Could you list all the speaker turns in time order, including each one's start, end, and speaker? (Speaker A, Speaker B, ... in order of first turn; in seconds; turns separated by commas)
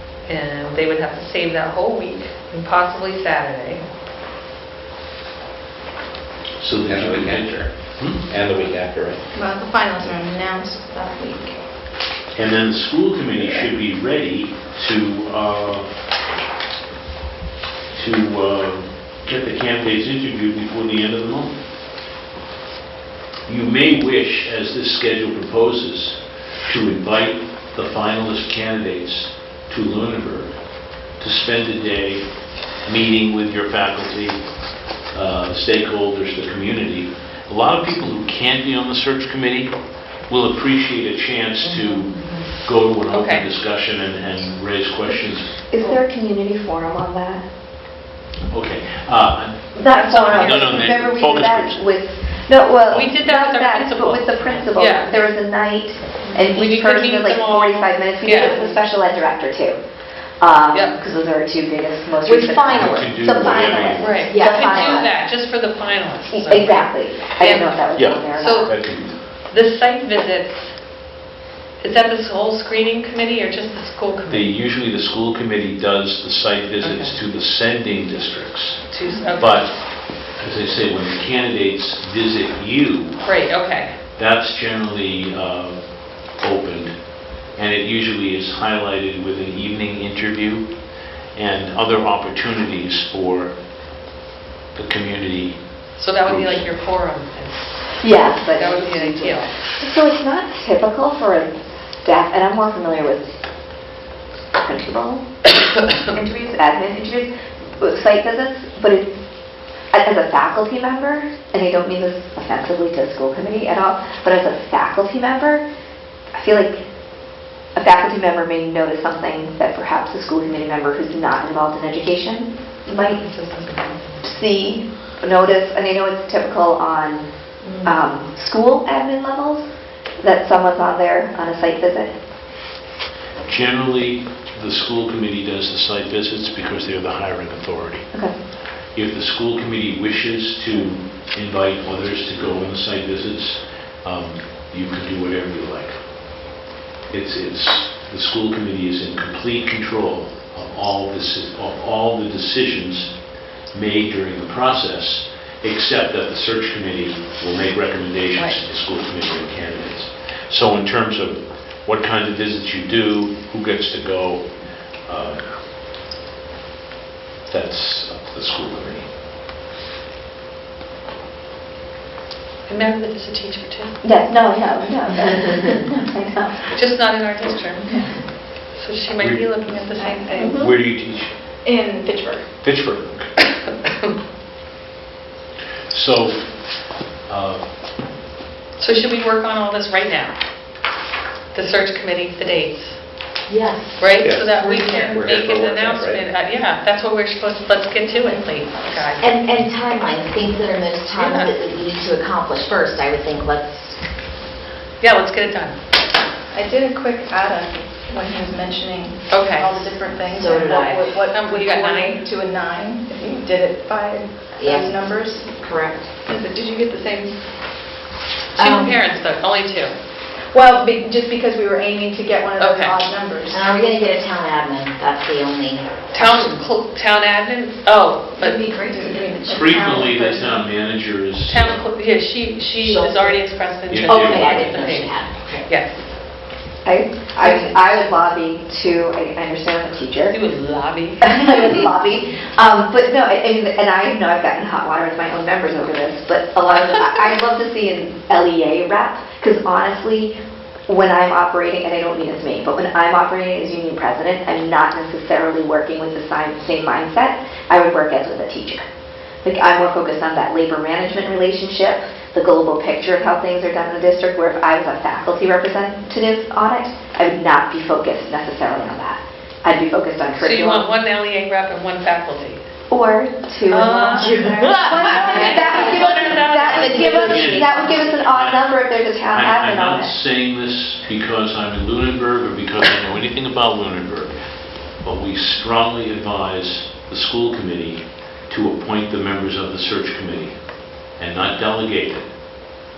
Speaker A: 0.2-3.8, Speaker B: 6.6-8.2, Speaker C: 6.8-9.3, Speaker D: 9.3-11.6, Speaker B: 12.3-15.9, Speaker C: 13.4-13.7, Speaker B: 17.9-21.6, Speaker B: 23.5-45.5, Speaker A: 41.7-42.5, Speaker A: 43.1-43.5, Speaker E: 45.5-47.5, Speaker B: 48.5-51.9, Speaker E: 49.8-59.8, Speaker A: 49.8-50.9, Speaker A: 52.9-55.2, Speaker A: 56.2-58.8, Speaker E: 60.4-65.2, Speaker A: 60.7-61.0, Speaker F: 62.3-62.9, Speaker B: 62.7-64.3, Speaker A: 64.0-71.0, Speaker F: 64.3-65.1, Speaker E: 66.3-68.8, Speaker B: 68.0-69.2, Speaker A: 71.8-74.5, Speaker B: 74.3-83.4, Speaker A: 76.8-77.2, Speaker A: 78.9-79.7, Speaker A: 83.2-84.0, Speaker B: 84.2-93.6, Speaker B: 94.8-96.7, Speaker A: 96.0-99.6, Speaker E: 98.0-103.4, Speaker E: 104.5-105.3, Speaker E: 106.1-109.2, Speaker E: 109.9-115.7, Speaker E: 116.3-116.8, Speaker E: 117.7-123.2, Speaker A: 122.9-124.2, Speaker E: 124.2-129.7, Speaker A: 127.6-128.0, Speaker E: 130.2-132.1, Speaker B: 133.4-138.2, Speaker B: 138.9-146.5, Speaker B: 147.1-165.5, Speaker A: 158.3-158.6, Speaker B: 167.5-169.1, Speaker A: 172.7-174.3, Speaker E: 174.0-176.7, Speaker A: 176.7-180.6, Speaker B: 179.2-179.7, Speaker D: 179.9-180.5, Speaker E: 180.4-180.7, Speaker B: 180.5-181.4, Speaker D: 181.6-182.7, Speaker B: 182.6-183.3, Speaker B: 185.9-187.7, Speaker A: 188.8-190.4, Speaker A: 191.5-193.2, Speaker F: 193.5-194.2, Speaker A: 194.0-199.3, Speaker C: 194.2-196.2, Speaker D: 198.0-198.8, Speaker F: 199.2-204.0, Speaker A: 201.1-201.6, Speaker A: 205.0-205.8, Speaker D: 206.5-215.7, Speaker A: 209.3-210.0, Speaker F: 210.3-211.2, Speaker A: 211.3-212.3, Speaker F: 214.6-215.0, Speaker F: 215.6-216.1, Speaker D: 216.2-217.4, Speaker A: 218.6-220.0, Speaker F: 218.6-219.0, Speaker D: 220.4-223.9, Speaker A: 222.6-223.0, Speaker F: 223.5-226.6, Speaker A: 226.1-228.6, Speaker D: 228.4-230.6, Speaker B: 229.5-231.8, Speaker A: 231.4-236.1, Speaker F: 232.8-235.7, Speaker B: 233.9-235.0, Speaker E: 236.8-240.4, Speaker A: 240.3-241.9, Speaker E: 241.2-250.4, Speaker E: 250.9-258.8, Speaker E: 259.4-270.9, Speaker A: 270.4-272.6, Speaker E: 272.9-280.1, Speaker A: 273.7-277.7, Speaker F: 274.3-276.2, Speaker B: 276.7-292.7